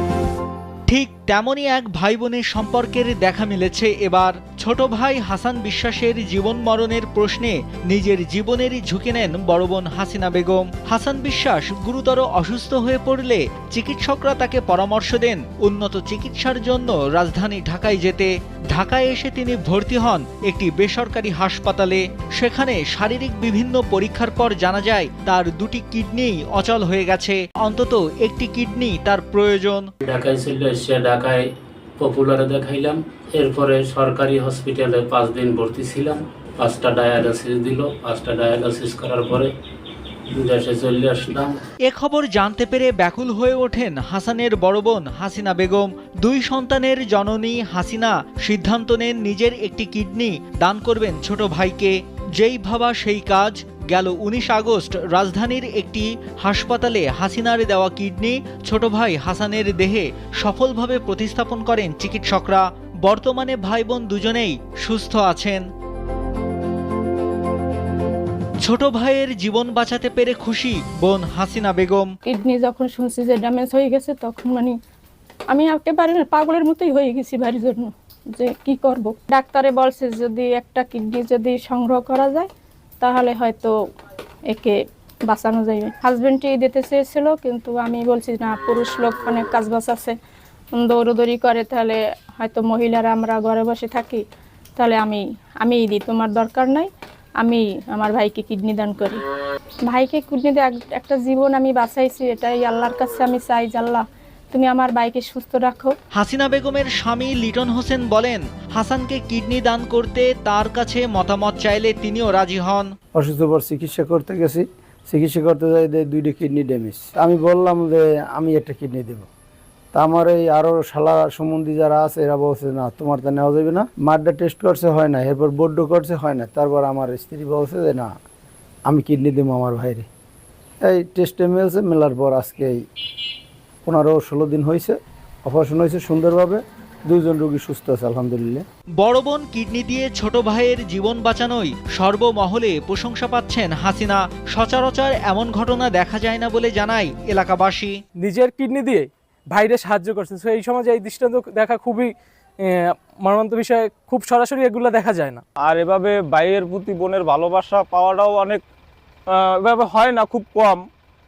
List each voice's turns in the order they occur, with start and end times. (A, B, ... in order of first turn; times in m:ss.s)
0:00.9-0:29.8 A
0:30.0-0:31.4 B
0:32.0-0:39.5 B
0:40.4-0:41.6 B
0:41.9-1:05.6 A
1:08.6-1:12.1 A
1:12.2-1:14.8 C
1:15.5-1:22.5 C
1:23.0-1:23.7 C
1:24.5-1:30.2 C
1:30.7-1:34.2 C
1:34.8-1:36.9 C
1:37.4-1:39.2 C
1:39.8-1:45.9 C
1:46.1-1:52.9 A
1:53.1-1:59.3 D
1:59.9-2:08.1 D
2:08.8-2:10.1 D
2:10.8-2:12.8 D
2:13.8-2:18.6 D
2:19.0-2:27.9 A
2:28.2-2:35.4 E
2:35.6-2:38.6 F
2:39.3-2:40.8 F